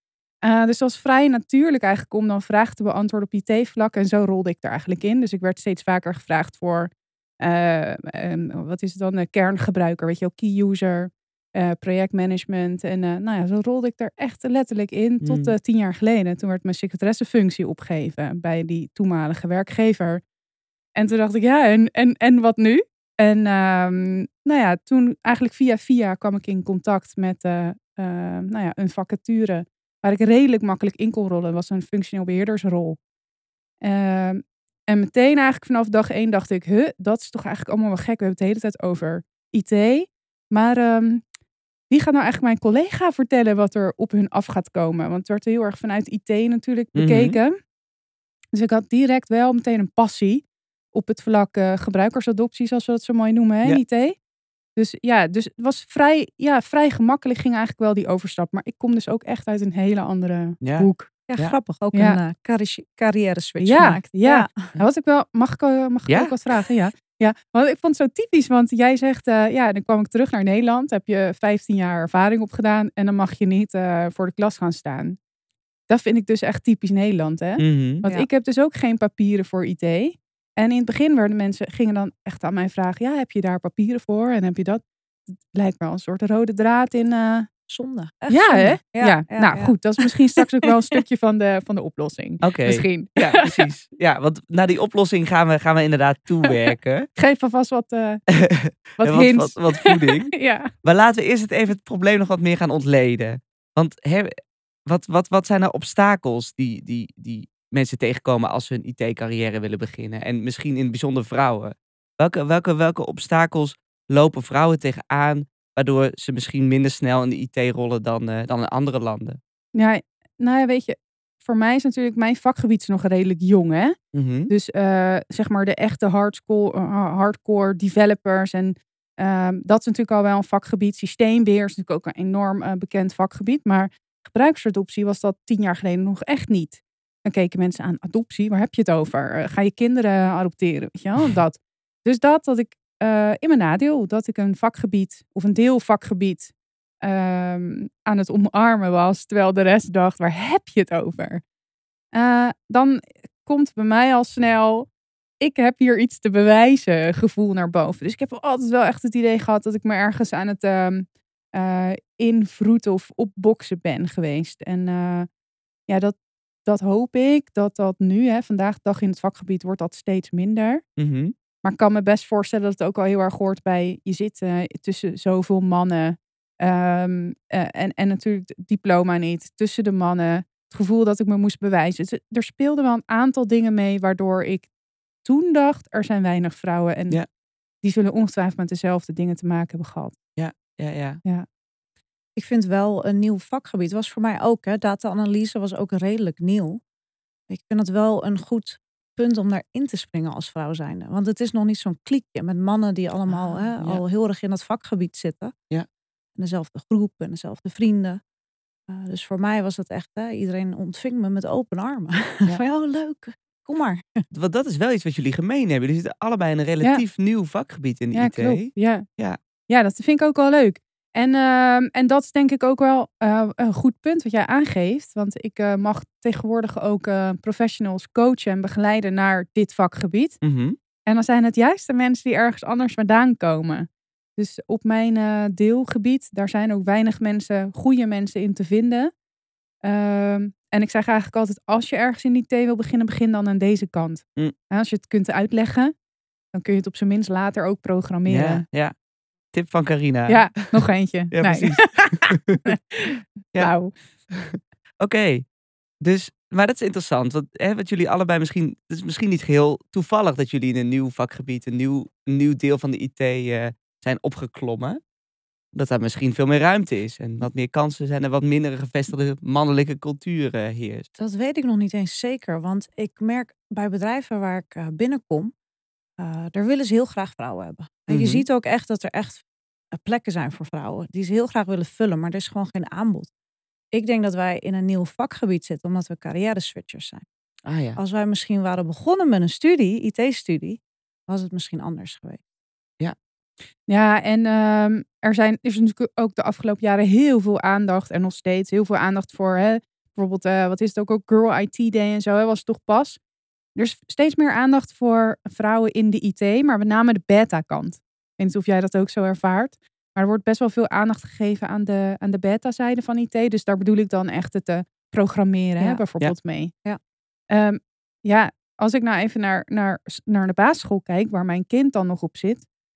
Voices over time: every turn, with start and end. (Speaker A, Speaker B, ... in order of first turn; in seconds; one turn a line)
Speaker A: 0.4-20.2
Speaker B: 15.2-15.5
Speaker A: 20.9-33.0
Speaker A: 33.8-41.2
Speaker A: 41.9-47.5
Speaker B: 46.9-47.4
Speaker A: 48.5-54.2
Speaker A: 54.8-61.1
Speaker B: 60.6-61.5
Speaker C: 61.3-64.7
Speaker A: 61.9-62.2
Speaker A: 63.6-75.2
Speaker B: 66.1-66.7
Speaker A: 75.9-87.5
Speaker B: 77.6-78.0
Speaker C: 87.7-91.0
Speaker A: 88.3-93.7
Speaker B: 92.4-97.1
Speaker A: 97.1-98.2
Speaker B: 98.3-104.3
Speaker A: 99.0-100.7
Speaker B: 104.9-119.4
Speaker A: 119.7-123.9
Speaker B: 124.1-124.5
Speaker A: 124.5-151.4
Speaker A: 152.1-154.9
Speaker A: 155.4-165.3
Speaker A: 165.9-170.8
Speaker B: 171.0-171.3
Speaker A: 171.6-184.7
Speaker A: 185.2-187.2
Speaker A: 187.8-190.1
Speaker B: 190.4-191.2
Speaker C: 192.3-196.8
Speaker C: 197.5-205.5
Speaker B: 203.3-204.0
Speaker C: 206.4-208.2
Speaker C: 208.9-214.2
Speaker B: 214.3-219.4
Speaker A: 218.1-219.1
Speaker A: 219.7-230.4
Speaker B: 230.4-230.8
Speaker A: 231.1-239.1
Speaker A: 239.8-245.9
Speaker A: 246.5-248.6
Speaker B: 248.3-248.9
Speaker B: 249.5-250.8
Speaker A: 250.3-253.9
Speaker B: 251.3-252.7
Speaker B: 254.3-255.4
Speaker B: 256.0-265.0
Speaker B: 265.7-271.1
Speaker C: 271.2-275.5
Speaker C: 276.2-283.3
Speaker B: 278.1-278.4
Speaker C: 283.9-287.2
Speaker B: 287.6-288.0
Speaker C: 288.0-292.4
Speaker A: 293.9-303.2
Speaker A: 303.7-316.7
Speaker A: 317.5-322.6